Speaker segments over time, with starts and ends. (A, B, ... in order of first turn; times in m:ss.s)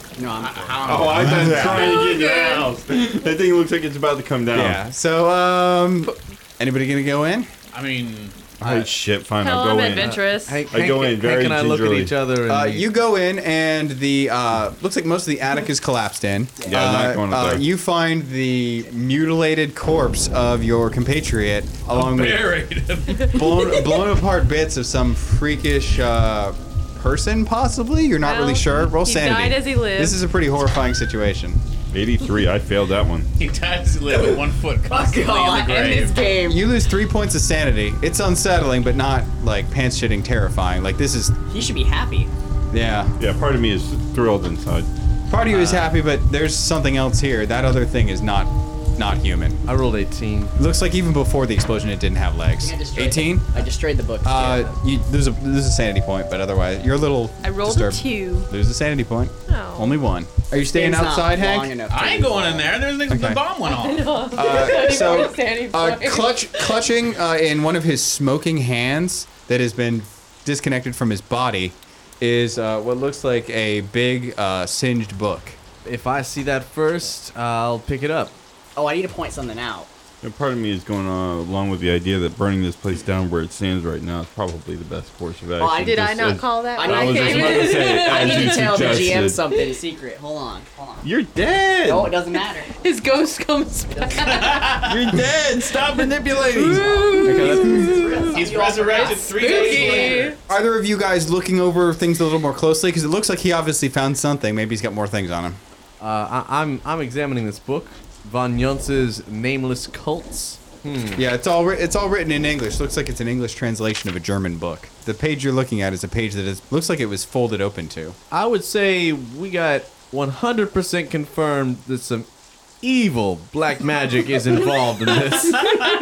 0:00.2-0:01.4 A
0:00.3-0:02.1 B
0:00.8-0:04.8 C
0:01.1-0:01.9 D
0:01.7-0:02.7 E
0:04.5-0:07.5 D
0:07.7-0:08.4 B
0:08.6-0:12.1 C
0:08.6-0:08.9 D
0:09.4-0:10.6 E
0:10.0-0:12.8 F
0:12.5-0:22.6 D
0:16.6-0:17.6 C
0:21.9-0:24.0 B
0:23.3-0:31.6 D
0:28.2-0:30.2 E
0:31.9-0:33.3 C
0:33.4-0:36.2 B
0:34.1-0:36.6 A
0:36.5-0:41.4 D
0:41.5-0:42.3 A
0:42.7-0:43.2 D
0:43.2-0:44.9 C
0:45.3-0:49.6 D
0:45.5-0:45.9 B
0:49.6-0:50.5 F
0:50.6-0:53.5 D
0:52.6-0:54.7 A
0:54.2-1:01.7 D
0:57.4-0:58.5 E
0:59.5-1:00.0 E
1:00.7-1:02.8 A
1:01.9-1:04.1 B
1:03.1-1:03.4 D
1:03.6-1:06.8 E
1:04.3-1:15.6 D
1:15.8-1:18.3 F
1:18.8-1:19.9 A
1:20.2-1:29.4 C
1:25.6-1:26.0 A
1:25.8-1:29.8 E
1:26.8-1:31.0 A
1:31.0-1:32.2 C
1:31.8-1:32.7 A
1:32.8-1:34.9 E
1:34.4-1:34.9 B
1:34.8-1:36.8 C
1:35.6-1:40.4 E
1:36.7-1:40.2 A
1:37.2-1:37.7 D
1:38.3-1:40.4 B
1:40.5-1:45.6 D
1:46.0-1:51.2 F
1:51.1-1:58.2 D
1:58.3-2:02.3 F
2:02.8-2:05.7 F